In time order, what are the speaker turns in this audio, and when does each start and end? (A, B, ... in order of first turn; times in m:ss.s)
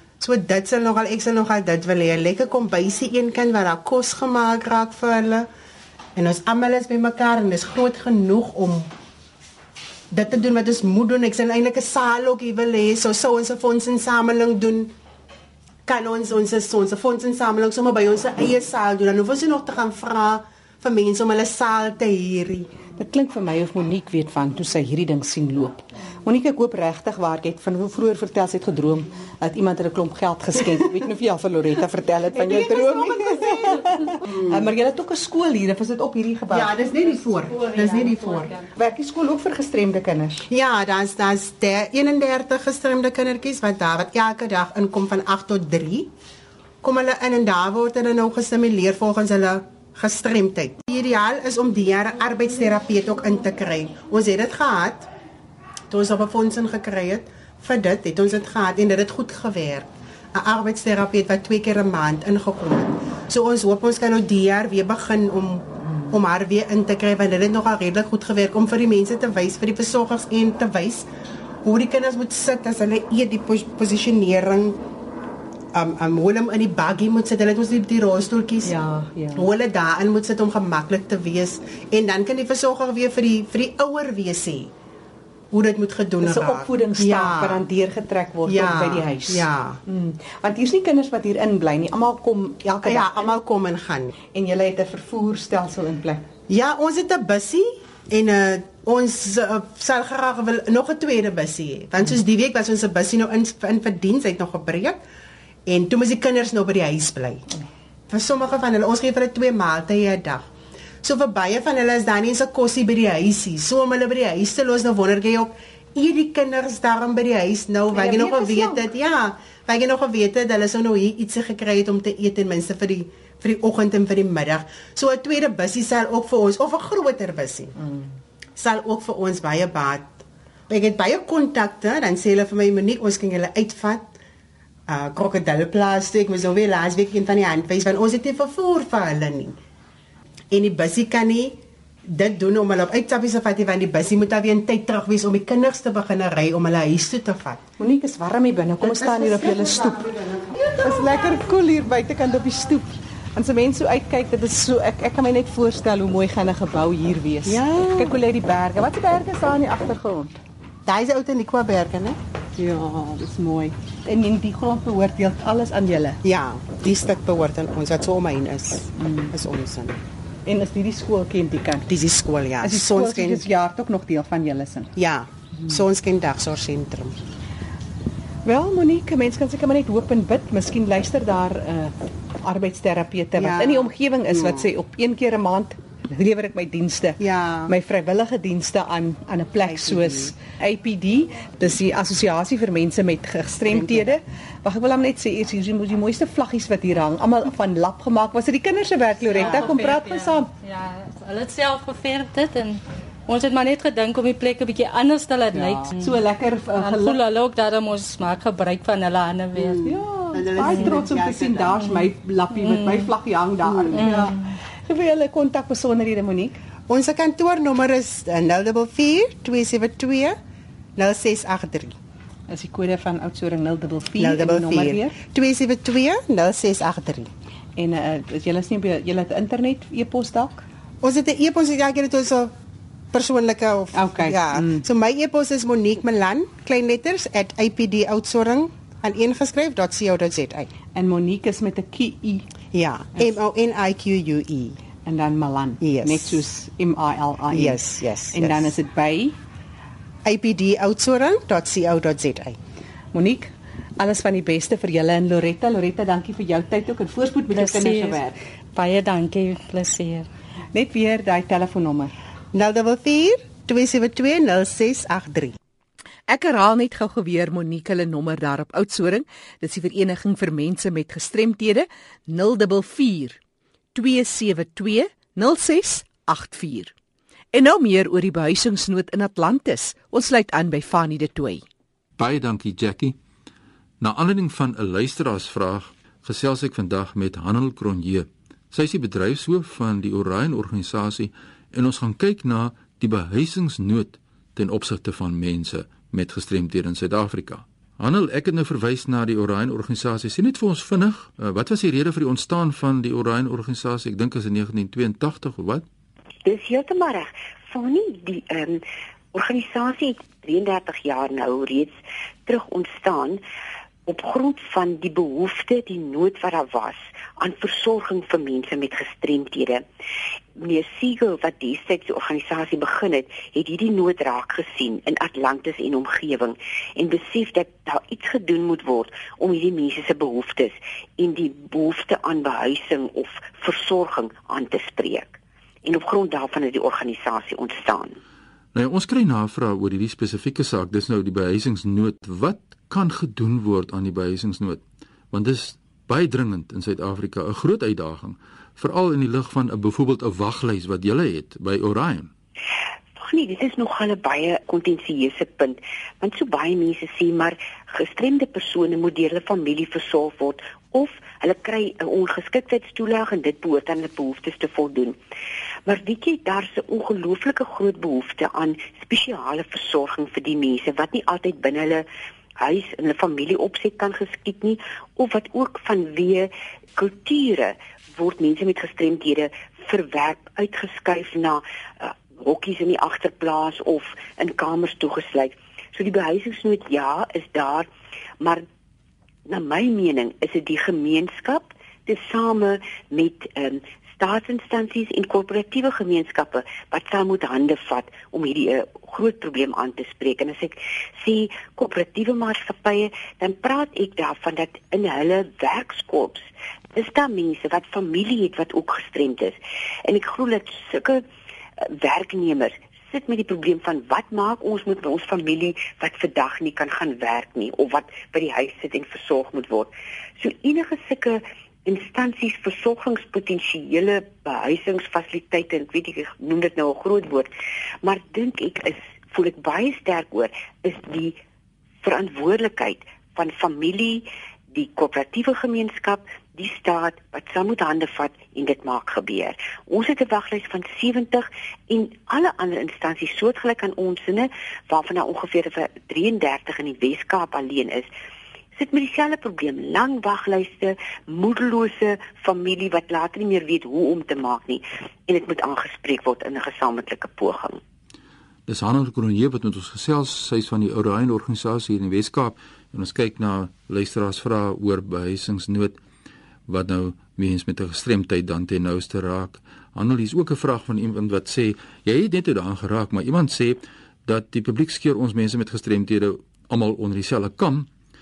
0:00.2-0:05.5 A
0:06.2-0:08.9 A
0:10.1-0:14.9 A
0:15.9-0:22.7 A
0:23.0-0:36.7 B
0:32.3-0:33.2 A
0:33.2-0:34.0 C
0:34.3-0:34.6 A
0:36.5-0:38.5 A
0:37.6-0:38.7 C
0:38.8-0:40.5 B
0:40.5-0:46.1 A
0:46.8-0:55.1 A
0:55.9-1:11.1 A
1:11.6-1:14.8 A
1:15.7-1:18.7 A
1:18.6-1:19.5 B
1:19.3-1:24.7 A
1:25.5-1:27.6 A
1:26.2-1:33.3 B
1:28.4-1:29.8 A
1:32.8-1:34.1 A
1:34.3-1:36.3 B
1:36.5-1:45.0 A
1:45.7-1:47.4 A
1:48.1-1:50.4 A
1:51.0-2:07.7 A
1:57.9-1:58.9 B
2:08.6-2:10.2 A
2:10.7-2:14.0 A
2:14.9-2:19.6 A
2:20.5-2:27.6 A
2:27.8-2:30.0 B
2:28.8-2:31.4 A
2:30.7-2:40.4 B
2:37.4-2:38.2 A
2:40.8-2:42.2 A
2:42.6-2:46.2 B
2:46.2-2:50.0 A
2:49.0-2:49.3 B
2:50.4-2:51.9 B
2:51.9-2:53.4 A
2:52.6-2:54.9 B
2:55.0-2:57.2 A
2:58.4-3:20.5 B
3:03.4-3:04.7 A
3:07.2-3:07.7 A
3:09.6-3:10.3 A
3:13.7-3:14.2 A
3:19.3-3:26.2 C
3:19.4-3:19.7 A
3:25.5-3:27.2 B
3:26.8-3:29.9 C
3:29.6-3:31.8 A
3:29.7-3:36.6 B
3:31.8-3:33.1 C
3:33.7-3:34.0 A
3:33.9-3:34.6 C
3:36.9-3:40.4 A
3:41.0-3:42.0 A
3:42.5-3:45.1 B
3:44.2-3:47.3 A
3:47.8-3:50.6 B
3:51.0-3:52.5 A
3:53.1-4:00.7 A
3:53.9-3:54.8 B
4:00.9-4:02.5 B
4:02.7-4:04.8 A
4:05.0-4:09.4 B
4:05.8-4:06.4 A
4:07.5-4:08.7 A
4:10.2-4:12.6 A
4:13.1-4:18.4 B
4:17.5-4:18.2 C
4:18.7-4:20.3 C
4:20.7-4:22.1 B
4:22.5-4:25.6 A
4:26.3-4:33.4 B
4:33.9-4:36.9 B
4:37.5-4:41.6 B
4:42.2-4:43.2 D
4:44.0-5:05.8 D
5:06.4-5:13.4 E
5:14.0-5:19.8 E
5:20.6-5:38.2 E
5:38.7-5:52.3 D
5:53.2-6:05.2 E
6:05.8-6:12.0 E
6:12.6-6:27.9 E
6:28.4-6:28.6 E
6:29.5-6:51.2 E
6:51.8-7:07.5 E
7:08.0-7:11.4 E
7:12.0-7:28.1 E
7:28.8-7:37.8 E
7:38.7-7:46.0 D
7:46.7-7:57.9 D